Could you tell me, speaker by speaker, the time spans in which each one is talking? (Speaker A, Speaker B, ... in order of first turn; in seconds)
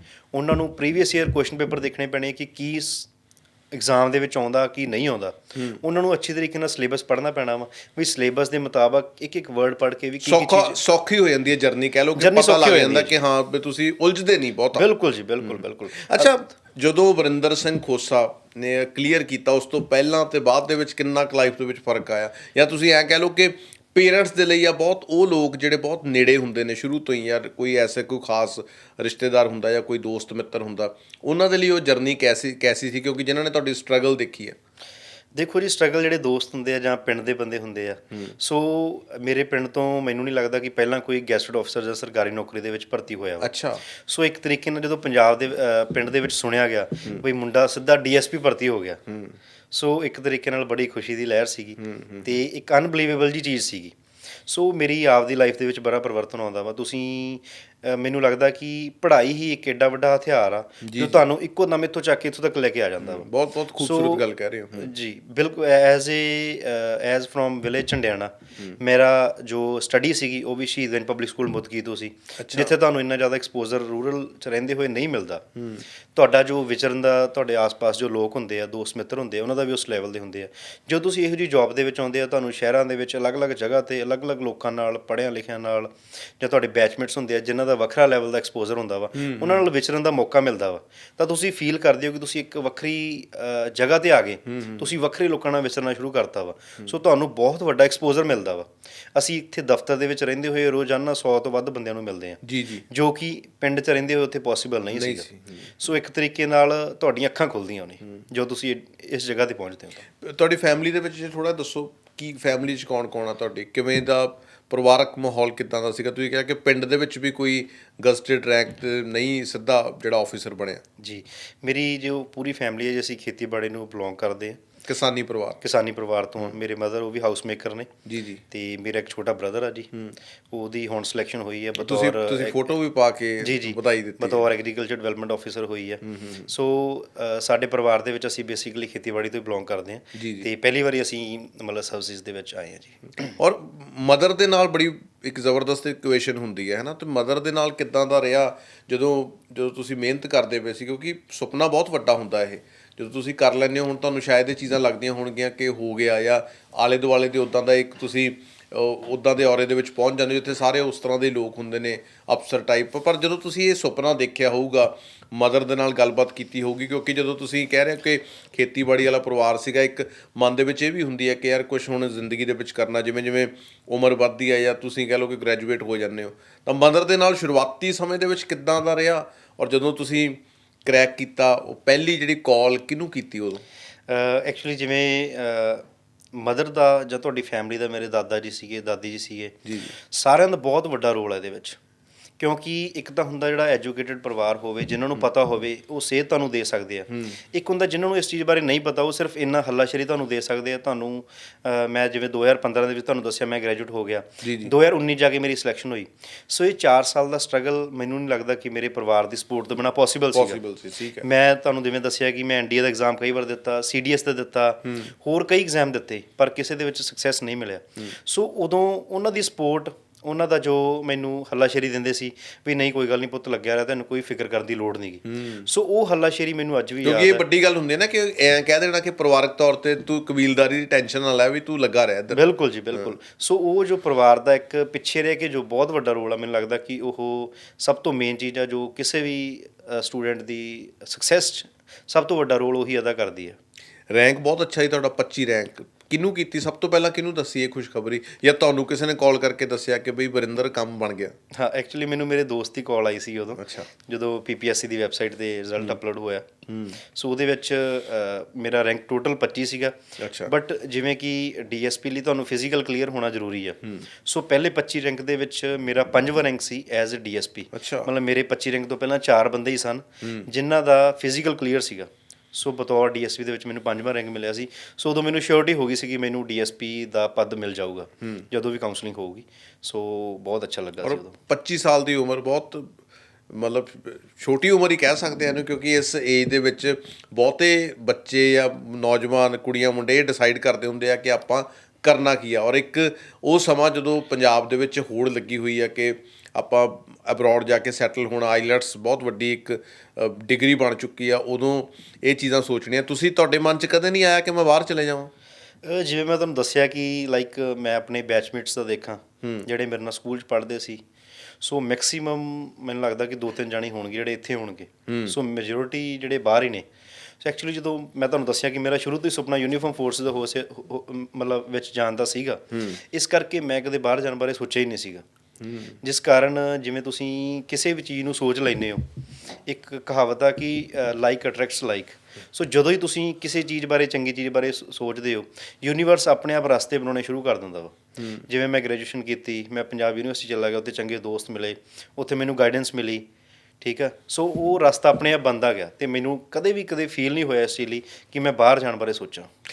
Speaker A: 0.3-3.1, 3.7-10.8, 12.2-13.1, 14.7-16.4, 35.3-49.0, 49.7-64.2, 64.8-75.4, 76.1-110.0, 121.0-124.6, 125.6-127.9, 128.5-129.9, 130.5-132.6, 133.4-143.3, 184.1-191.8, 192.4-210.6, 211.2-227.4, 232.3-243.6, 251.5-256.5, 257.1-281.3, 305.8-311.0, 311.6-316.9, 317.4-325.2, 326.0-329.0, 329.6-343.2, 343.8-349.5
Speaker B: 10.2-14.8, 15.4-34.6, 43.4-43.8, 49.1-49.4, 51.8-52.3, 60.8-61.2, 63.0-64.9, 72.4-72.7, 75.6-75.8, 89.1-89.7, 94.5-94.8, 102.4-102.8, 104.9-105.7, 110.2-120.8, 124.8-125.6, 128.1-128.4, 131.8-134.4, 136.0-136.5, 140.1-140.5, 143.4-183.6, 189.7-189.9, 197.1-197.4, 204.4-204.7, 210.3-211.2, 225.3-225.7, 227.0-232.4, 244.1-251.3, 253.6-253.9, 256.7-257.0, 260.2-260.5, 267.7-268.1, 270.2-270.5, 281.0-283.0, 283.5-305.3, 315.1-315.3, 322.7-323.0, 325.6-325.9, 338.2-338.4